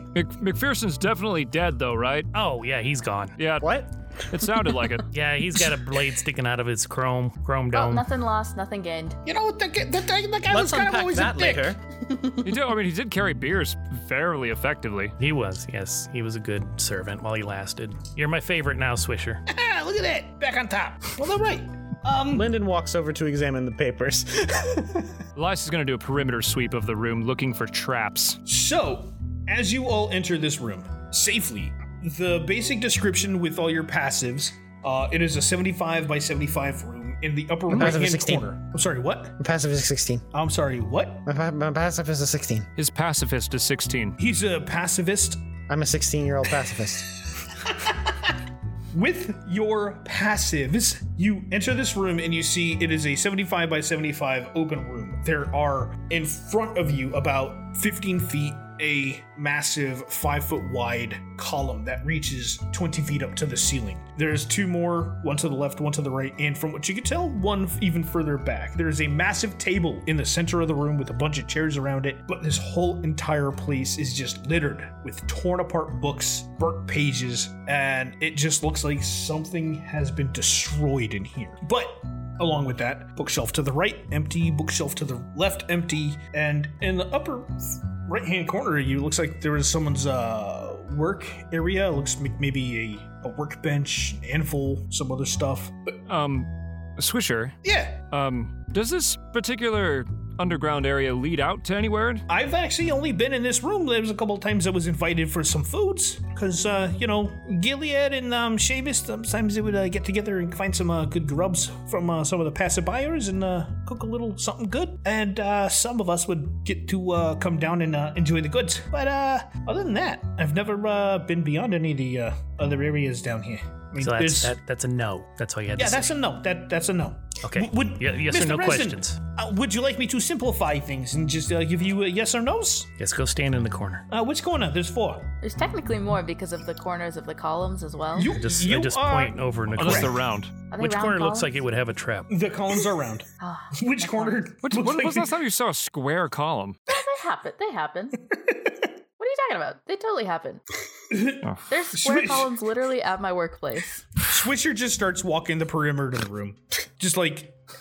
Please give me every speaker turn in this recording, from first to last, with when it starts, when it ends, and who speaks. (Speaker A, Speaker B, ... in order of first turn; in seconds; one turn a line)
Speaker A: 0.1-2.3
Speaker B: 2.3-3.4
Speaker A: 3.4-5.1
Speaker C: 3.6-3.9
Speaker B: 5.1-8.1
Speaker D: 7.7-9.2
Speaker E: 9.2-11.8
Speaker C: 10.5-11.8
Speaker D: 12.1-12.4
Speaker A: 12.4-15.1
Speaker B: 15.2-19.4
Speaker E: 19.5-22.5
Speaker C: 22.3-25.2
Speaker A: 25.4-28.4
Speaker E: 28.5-39.4
Speaker C: 37.7-38.5
Speaker C: 39.4-40.3
Speaker E: 40.3-41.2
Speaker C: 41.2-42.7
Speaker A: 42.8-44.2
Speaker E: 44.2-45.4
Speaker C: 45.7-47.1
Speaker E: 47.7-48.3
Speaker E: 48.9-96.0
Speaker A: 96.1-97.6
Speaker E: 97.6-98.0
Speaker A: 98.1-102.3
Speaker E: 102.3-124.6
Speaker B: 124.0-126.1
Speaker E: 125.8-132.9
Speaker B: 127.4-129.2
Speaker B: 133.0-134.1
Speaker E: 134.1-135.3
Speaker D: 135.4-138.4
Speaker E: 138.1-140.2
Speaker B: 138.3-140.2
Speaker A: 139.8-140.5
Speaker D: 140.7-141.6
Speaker B: 140.8-142.3
Speaker E: 142.3-145.3
Speaker D: 143.4-144.5
Speaker A: 144.6-146.8
Speaker D: 146.9-148.3
Speaker D: 149.2-150.6
Speaker E: 151.1-152.5
Speaker D: 151.7-154.0
Speaker E: 154.2-157.6